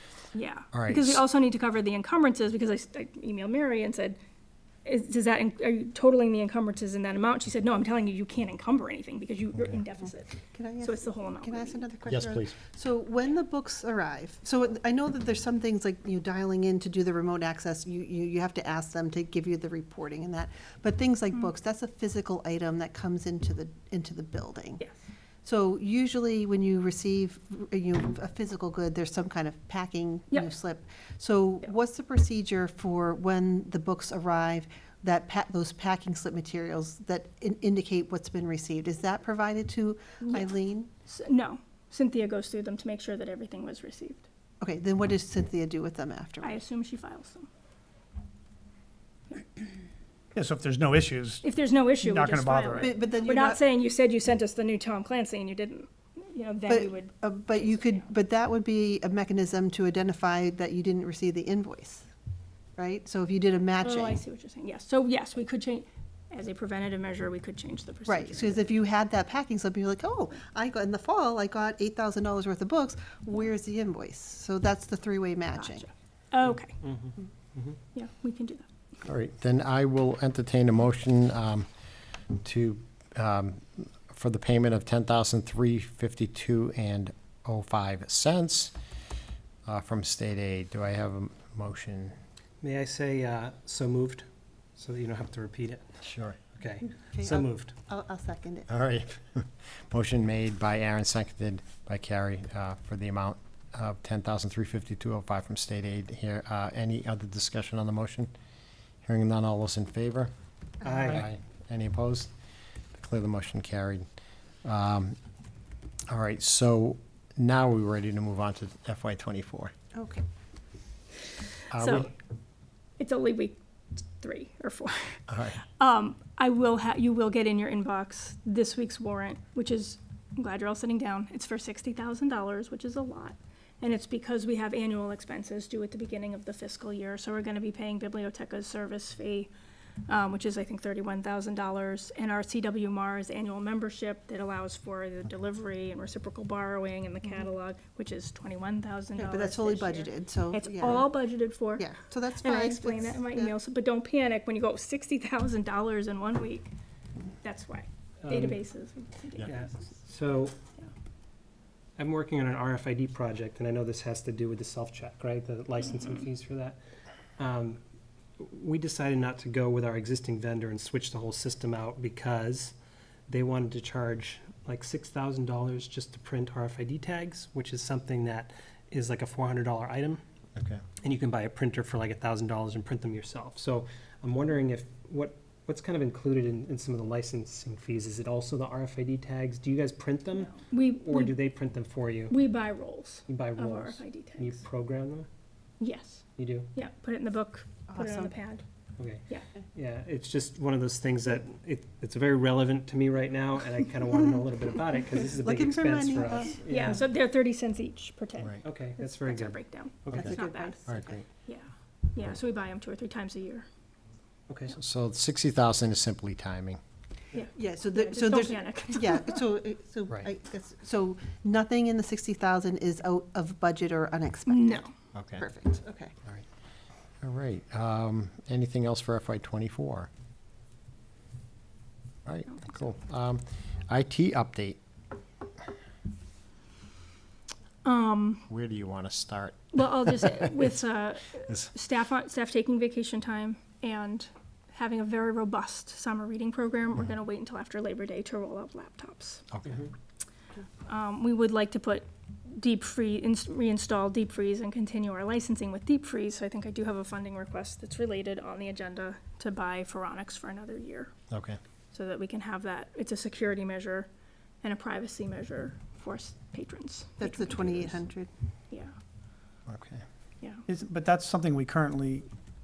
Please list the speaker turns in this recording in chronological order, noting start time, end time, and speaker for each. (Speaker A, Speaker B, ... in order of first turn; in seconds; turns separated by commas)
Speaker A: 0.3-4.2, Speaker B: 0.7-1.2, Speaker A: 4.8-11.8, Speaker C: 10.5-24.8, Speaker B: 12.1-12.6, Speaker C: 25.4-40.9, Speaker A: 40.2-40.5, Speaker A: 41.1-44.3, Speaker C: 44.6-46.6, Speaker A: 46.4-47.5, Speaker D: 50.4-51.4, Speaker A: 51.4-58.0, Speaker D: 52.0-52.9, Speaker C: 52.8-53.6, Speaker C: 56.7-62.1, Speaker C: 62.8-64.2, Speaker A: 63.8-68.7, Speaker C: 68.1-75.9, Speaker A: 75.6-76.8, Speaker E: 76.8-77.8, Speaker A: 77.9-78.7, Speaker B: 79.0-81.7, Speaker B: 82.4-88.7, Speaker B: 89.7-92.2, Speaker E: 92.6-94.3, Speaker E: 94.8-95.8, Speaker B: 96.0-96.4, Speaker E: 96.5-97.7, Speaker C: 97.0-98.7, Speaker B: 98.7-108.3, Speaker B: 109.0-110.3, Speaker E: 110.8-111.3, Speaker B: 111.0-112.3, Speaker B: 112.9-114.1, Speaker B: 114.6-115.2, Speaker B: 116.1-119.7, Speaker C: 120.0-120.2, Speaker B: 121.7-122.1, Speaker A: 121.8-122.1, Speaker A: 123.0-125.2, Speaker B: 125.3-125.6, Speaker A: 125.8-139.5, Speaker A: 140.1-156.7, Speaker C: 149.2-151.1, Speaker C: 151.8-153.5, Speaker A: 157.4-159.7, Speaker E: 158.2-158.6, Speaker E: 159.4-160.6, Speaker E: 162.0-166.8, Speaker E: 167.4-167.8, Speaker E: 168.4-172.7, Speaker E: 173.3-180.2, Speaker B: 180.6-180.8, Speaker E: 181.0-192.3, Speaker A: 190.5-191.4, Speaker A: 192.3-194.7, Speaker E: 193.3-195.3, Speaker A: 195.8-198.7, Speaker E: 196.4-196.7, Speaker C: 197.9-198.3, Speaker E: 199.0-207.0, Speaker C: 205.4-206.6, Speaker A: 206.7-210.8, Speaker E: 208.6-210.4, Speaker B: 210.1-210.4, Speaker C: 210.1-211.2, Speaker B: 210.9-211.2, Speaker A: 211.4-213.7, Speaker E: 214.5-214.8, Speaker B: 214.7-216.8, Speaker A: 217.3-219.4, Speaker C: 217.5-224.9, Speaker A: 224.5-224.9, Speaker B: 225.1-225.5, Speaker C: 225.4-226.1, Speaker B: 227.2-230.1, Speaker B: 232.3-234.8, Speaker A: 237.8-238.5, Speaker B: 238.5-240.6, Speaker A: 239.7-249.4, Speaker B: 249.5-249.8, Speaker A: 250.9-261.1, Speaker B: 261.3-261.6, Speaker A: 261.9-264.1, Speaker A: 264.6-268.0, Speaker C: 267.2-268.3, Speaker B: 269.7-270.0, Speaker D: 270.7-272.3